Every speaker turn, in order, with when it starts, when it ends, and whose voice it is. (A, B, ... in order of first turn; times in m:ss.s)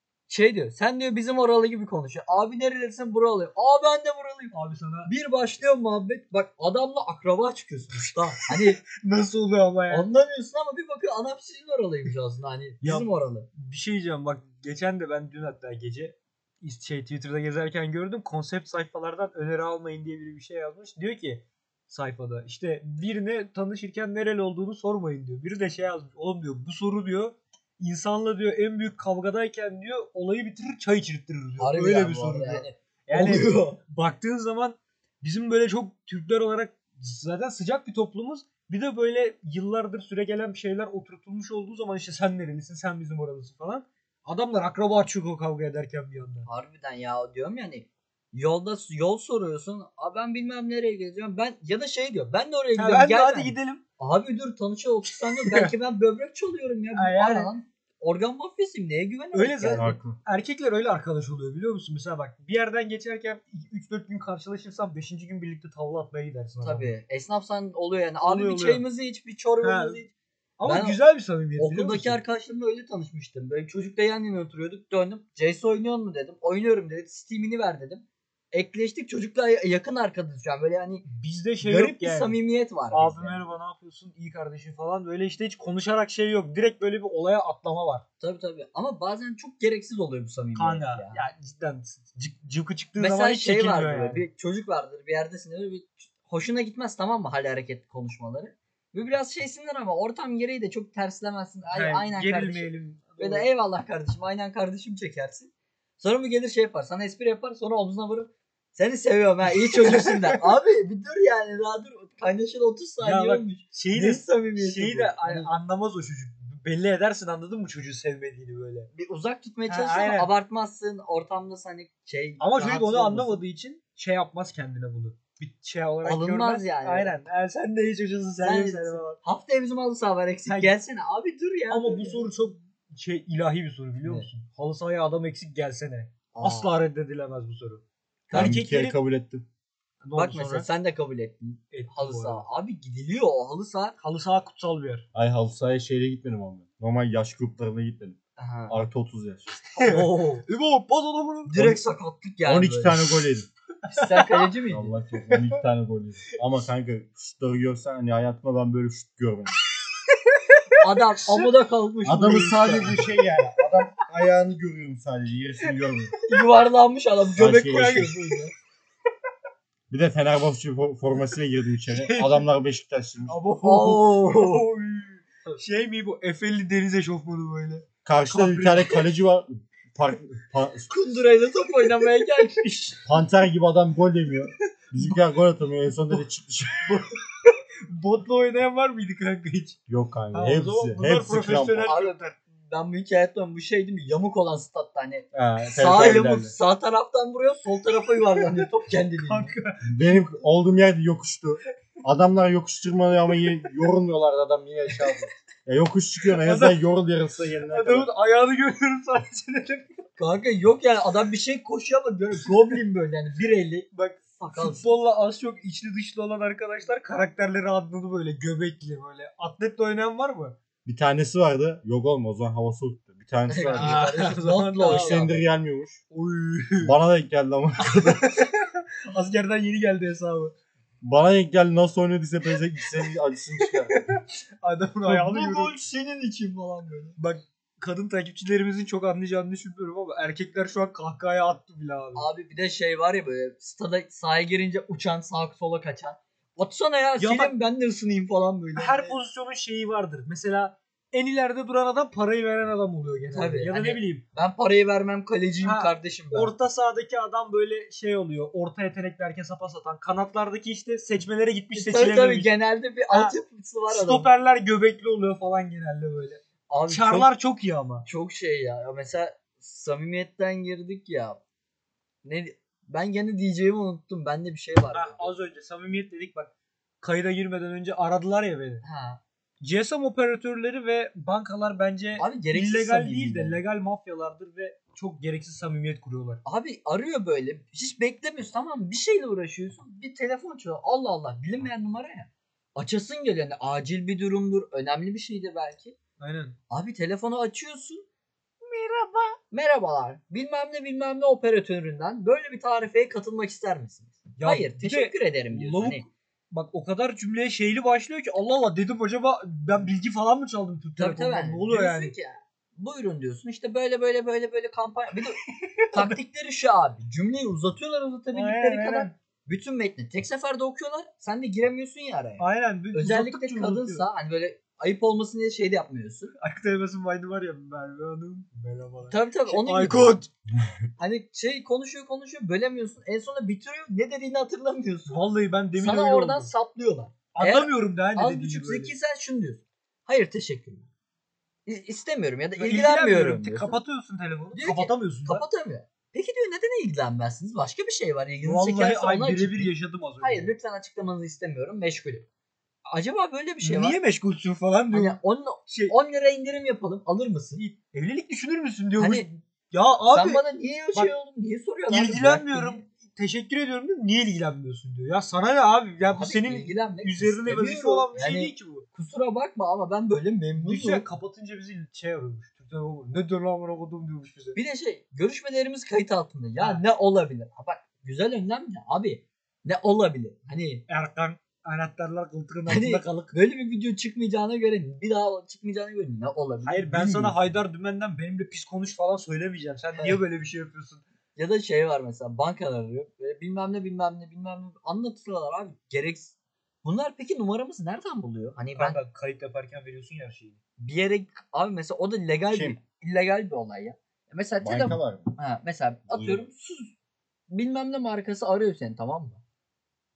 0:00.3-0:04.5 A
0:04.5-0:05.1 B
0:05.1-0:08.8 A
0:08.4-0:10.1 B
0:09.9-0:13.5 A
0:12.8-0:46.5 B
0:31.6-0:33.8 A
0:46.5-1:00.0 A
0:52.8-0:53.8 B
0:55.3-0:55.7 B
0:57.0-0:57.5 B
0:59.3-1:06.9 B
0:59.8-1:00.2 C
1:06.6-1:10.1 A
1:08.2-1:08.8 B
1:09.6-1:10.0 B
1:10.6-1:12.2 B
1:10.6-1:11.0 A
1:11.6-1:21.1 A
1:21.1-1:22.4 B
1:21.6-1:23.4 A
1:22.9-1:28.0 B
1:28.2-1:31.2 A
1:30.6-1:34.2 B
1:33.0-1:55.5 A
1:41.7-1:43.5 B
1:49.7-1:50.4 B
1:53.0-1:58.9 B
1:58.9-2:03.4 A
1:59.7-2:00.3 B
2:02.4-2:09.2 B
2:06.0-2:07.1 A
2:08.4-2:12.3 A
2:10.5-2:10.7 B
2:11.7-2:19.0 B
2:16.3-2:16.7 A
2:18.3-2:18.6 A
2:18.3-2:19.5 C
2:20.0-2:20.7 B
2:20.2-2:24.0 A
2:21.7-2:22.4 B
2:24.0-2:25.1 B
2:25.2-2:29.6 C
2:28.4-2:28.8 A
2:29.8-2:31.7 B
2:29.8-2:30.4 A
2:31.5-2:33.0 A
2:32.4-2:33.5 C
2:33.9-2:34.5 B
2:33.9-2:34.9 A
2:34.7-2:39.5 C
2:35.1-2:35.6 B
2:40.3-2:41.5 B
2:40.8-2:43.0 A
2:42.0-2:46.1 C
2:46.3-2:48.5 A
2:47.4-2:48.1 C
2:47.7-2:48.5 B
2:49.9-2:53.4 C
2:51.9-2:52.4 B
2:53.3-2:59.1 B
2:53.6-2:54.7 A
2:58.0-3:00.9 C
3:00.9-3:03.0 A
3:01.9-3:02.7 B
3:03.0-3:07.0 C
3:06.8-3:09.8 B
3:09.9-3:11.9 C
3:10.3-3:12.4 B
3:11.8-3:19.6 A
3:15.3-3:16.5 C
3:18.4-3:18.7 B
3:19.2-3:20.1 B
3:19.8-3:28.1 C
3:26.4-3:26.8 B
3:27.7-3:29.9 B
3:30.2-3:34.9 A
3:33.9-3:40.6 B
3:40.9-3:44.2 C
3:43.5-3:45.4 A
3:43.7-3:45.3 B
3:44.8-3:46.0 C
3:46.1-3:47.0 B
3:46.8-3:48.4 C
3:47.9-3:50.5 B
3:51.0-3:54.0 C
3:53.6-3:55.8 B
3:55.0-3:57.2 A
3:57.2-4:02.3 B
4:02.2-4:09.2 A
4:07.2-4:07.6 B
4:08.8-4:14.2 B
4:13.3-4:16.5 A
4:15.6-4:22.5 B
4:21.7-4:24.3 A
4:23.1-4:23.4 B
4:23.9-4:28.1 B
4:26.7-4:27.3 A
4:28.1-4:31.4 A
4:32.2-4:35.3 A
4:34.9-4:38.8 B
4:38.8-4:39.2 A
4:39.6-4:46.4 B
4:42.2-4:43.6 A
4:46.4-4:56.0 A
4:56.2-4:56.6 B
4:56.7-4:58.1 A
4:58.6-5:06.1 A
5:04.4-5:12.2 B
5:11.0-5:26.3 A
5:15.4-5:16.2 B
5:18.3-5:19.1 B
5:22.4-5:24.0 B
5:26.4-5:30.3 B
5:29.1-5:30.2 A
5:31.0-5:35.2 A
5:35.1-5:36.5 B
5:35.8-5:40.9 A
5:37.3-5:38.9 B
5:41.7-5:43.8 A
5:42.6-5:45.5 B
5:44.6-5:52.3 A
5:48.4-5:50.5 B
5:52.9-5:54.0 A
5:53.6-5:55.9 B
5:54.9-5:57.6 A
5:57.6-6:00.4 B
5:59.0-5:59.3 A
6:00.1-6:02.8 A
6:01.9-6:08.8 B
6:06.1-6:11.1 A
6:10.6-6:14.6 B
6:14.6-6:20.8 A
6:16.6-6:16.8 B
6:20.9-6:23.4 B
6:22.7-6:27.5 A
6:26.6-6:31.0 B
6:30.0-6:30.2 A
6:31.4-6:39.0 A
6:38.8-6:40.6 B
6:40.8-6:46.9 A
6:42.5-6:42.8 C
6:44.6-6:45.4 C
6:46.1-6:46.5 C
6:47.5-6:49.4 A